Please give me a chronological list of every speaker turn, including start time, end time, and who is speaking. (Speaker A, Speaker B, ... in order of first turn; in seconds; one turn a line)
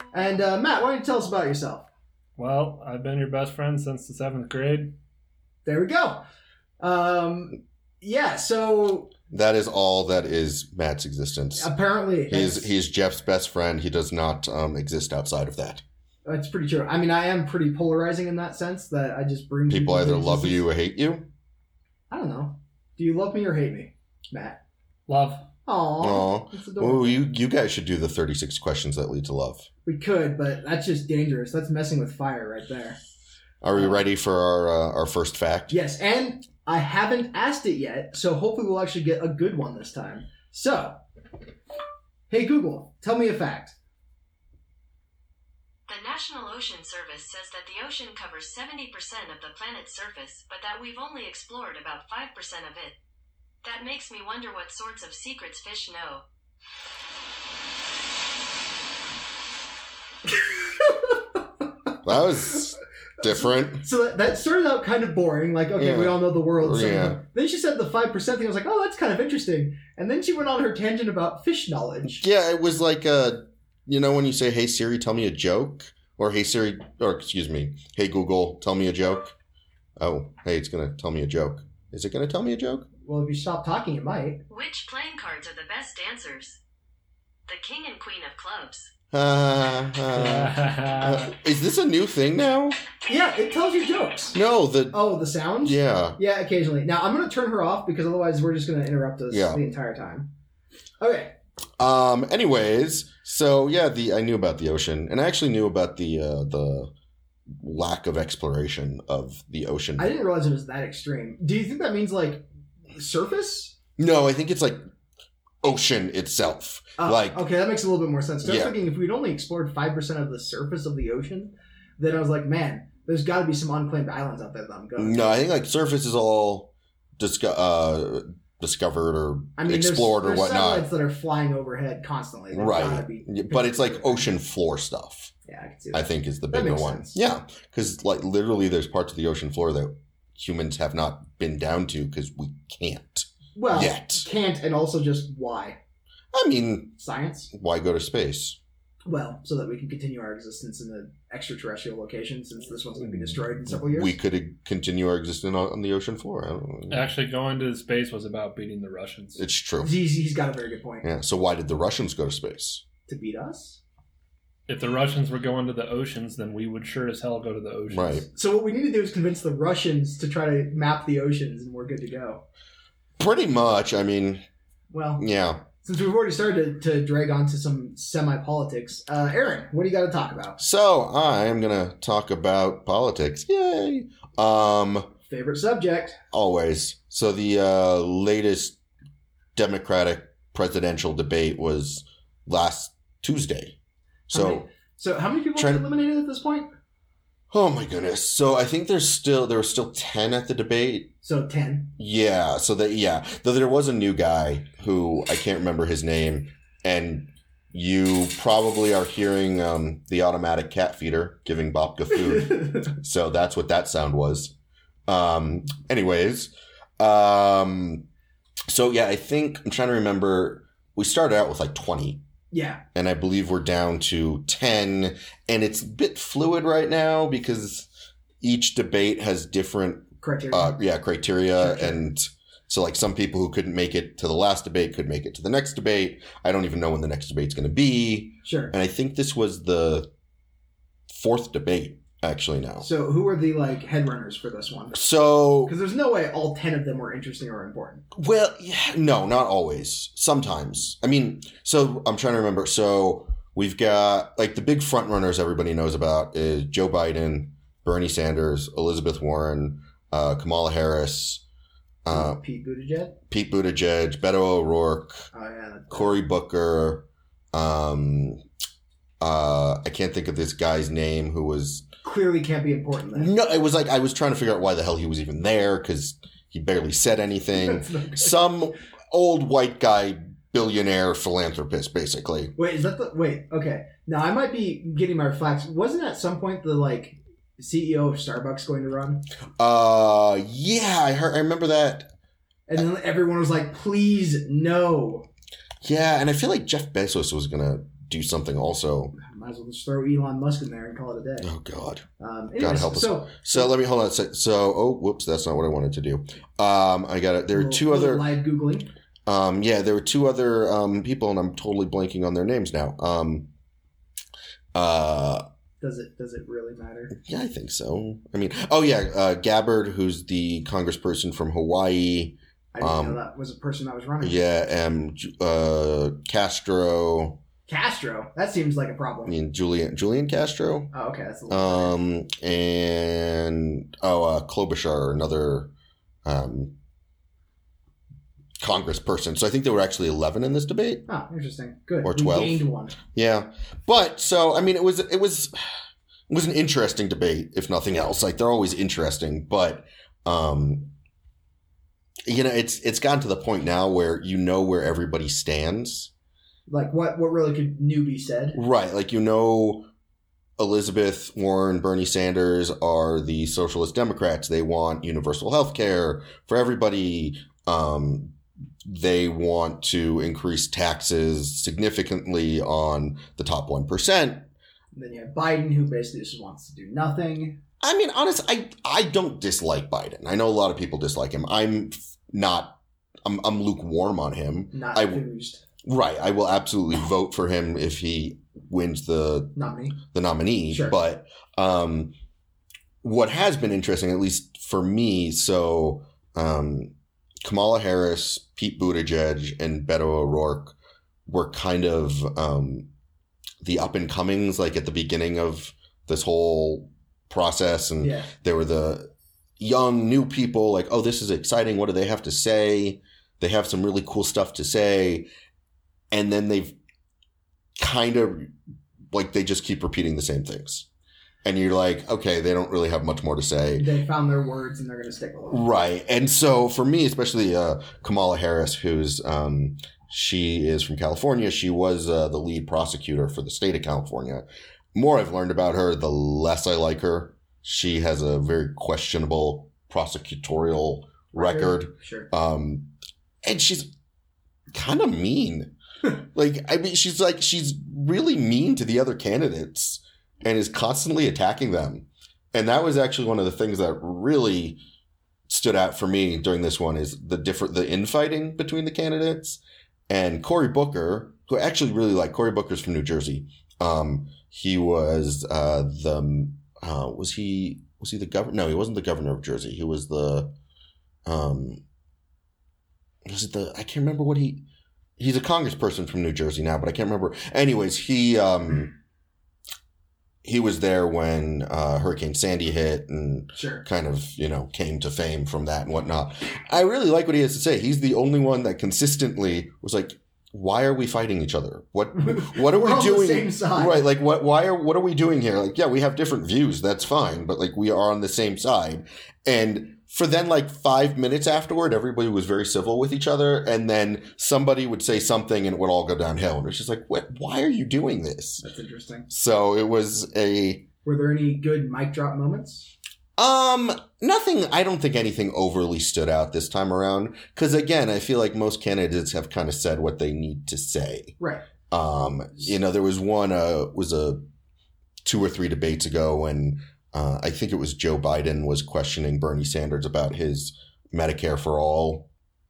Speaker A: 0.1-1.9
Speaker B: 2.4-4.9
Speaker A: 5.7-6.2
Speaker A: 6.8-9.1
Speaker C: 9.3-11.7
Speaker A: 11.6-12.7
Speaker C: 12.3-15.8
Speaker A: 16.2-20.6
Speaker C: 19.7-21.3
Speaker A: 22.1-24.6
Speaker B: 25.1-25.5
Speaker A: 25.7-27.2
Speaker C: 26.0-29.7
Speaker A: 29.9-33.0
Speaker C: 33.6-35.8
Speaker A: 33.8-34.0
Speaker A: 35.7-41.0
Speaker A: 42.3-43.8
Speaker D: 45.9-53.0
Speaker D: 53.6-56.2
Speaker A: 60.8-61.2
Speaker C: 62.0-63.8
Speaker A: 63.2-72.2
Speaker C: 65.8-67.2
Speaker C: 72.2-79.3
Speaker C: 80.0-82.9
Speaker A: 83.0-84.4
Speaker D: 84.5-86.6
Speaker D: 87.5-88.9
Speaker C: 89.1-92.8
Speaker B: 90.1-91.3
Speaker A: 93.1-94.4
Speaker C: 94.3-95.0
Speaker A: 94.9-100.3
Speaker C: 95.6-96.2
Speaker C: 99.3-99.6
Speaker A: 101.0-101.3
Speaker C: 101.8-106.9
Speaker C: 107.6-110.2
Speaker A: 110.0-113.8
Speaker C: 114.0-114.8
Speaker C: 115.6-117.4
Speaker A: 117.0-125.2
Speaker C: 118.4-118.7
Speaker C: 125.0-130.9
Speaker A: 129.6-134.3
Speaker C: 132.5-135.3
Speaker A: 135.5-137.2
Speaker C: 135.9-144.3
Speaker A: 143.6-145.8
Speaker C: 146.3-147.0
Speaker A: 147.0-147.5
Speaker C: 147.5-148.6
Speaker A: 149.1-154.2
Speaker C: 153.7-157.0
Speaker B: 156.9-159.4
Speaker C: 159.4-159.9
Speaker A: 159.8-161.1
Speaker C: 161.0-162.8
Speaker A: 163.1-163.8
Speaker B: 164.7-168.3
Speaker C: 167.9-168.2
Speaker A: 168.4-172.4
Speaker C: 173.2-174.4
Speaker A: 174.9-175.2
Speaker C: 175.2-175.6
Speaker A: 175.8-180.6
Speaker C: 180.6-185.1
Speaker A: 185.3-186.2
Speaker C: 186.3-188.8
Speaker C: 189.6-193.8
Speaker A: 194.3-196.7
Speaker C: 194.3-194.7
Speaker C: 195.6-195.8
Speaker C: 197.5-201.1
Speaker A: 201.2-201.9
Speaker C: 202.0-214.5
Speaker C: 215.1-218.1
Speaker C: 218.7-222.2
Speaker A: 222.5-222.8
Speaker C: 222.9-227.9
Speaker C: 228.4-240.1
Speaker A: 230.2-230.7
Speaker A: 231.6-232.0
Speaker A: 238.4-238.7
Speaker C: 241.1-242.9
Speaker A: 242.8-245.0
Speaker C: 244.9-245.7
Speaker A: 245.7-248.1
Speaker C: 248.1-261.4
Speaker C: 262.1-262.4
Speaker A: 262.1-263.2
Speaker C: 263.3-265.3
Speaker A: 265.3-266.2
Speaker C: 265.9-268.4
Speaker C: 269.2-271.9
Speaker A: 272.0-273.3
Speaker C: 273.1-282.5
Speaker A: 277.5-278.3
Speaker A: 282.6-289.2
Speaker C: 289.6-292.1
Speaker A: 292.7-295.3
Speaker C: 295.8-299.1
Speaker A: 299.2-301.5
Speaker C: 301.4-302.1
Speaker A: 302.2-303.7
Speaker C: 302.6-308.3
Speaker A: 307.5-308.9
Speaker C: 309.3-313.5
Speaker C: 314.7-315.4
Speaker A: 315.8-317.1
Speaker C: 317.2-323.2
Speaker A: 322.7-324.4
Speaker C: 324.2-327.4
Speaker A: 327.7-329.3
Speaker C: 329.3-330.9
Speaker A: 330.9-331.9
Speaker C: 331.5-335.7
Speaker C: 336.2-336.7
Speaker C: 338.6-341.1
Speaker A: 341.1-343.0
Speaker C: 342.0-345.5
Speaker C: 346.3-350.9
Speaker C: 352.3-356.1
Speaker A: 356.7-358.6
Speaker C: 358.6-359.9
Speaker C: 360.6-374.5
Speaker A: 374.9-377.6
Speaker C: 377.8-385.2
Speaker A: 384.7-385.6
Speaker C: 385.9-392.1
Speaker A: 389.6-390.0
Speaker C: 393.0-396.9
Speaker C: 397.4-400.8
Speaker C: 401.3-402.9
Speaker C: 403.6-415.3
Speaker A: 408.0-408.3
Speaker C: 416.1-416.8
Speaker C: 417.8-418.5
Speaker C: 419.1-420.9
Speaker C: 421.4-423.9
Speaker A: 423.8-425.6
Speaker C: 425.5-442.9
Speaker A: 441.4-442.3
Speaker C: 443.4-443.9
Speaker C: 444.7-454.8
Speaker C: 455.5-470.5
Speaker C: 471.3-471.8
Speaker C: 473.3-474.6
Speaker C: 475.2-478.9
Speaker C: 480.4-508.6
Speaker A: 483.6-483.8
Speaker A: 492.2-494.0
Speaker A: 508.6-509.3
Speaker C: 509.3-510.9
Speaker A: 511.0-512.9
Speaker C: 513.4-524.4
Speaker C: 525.2-532.3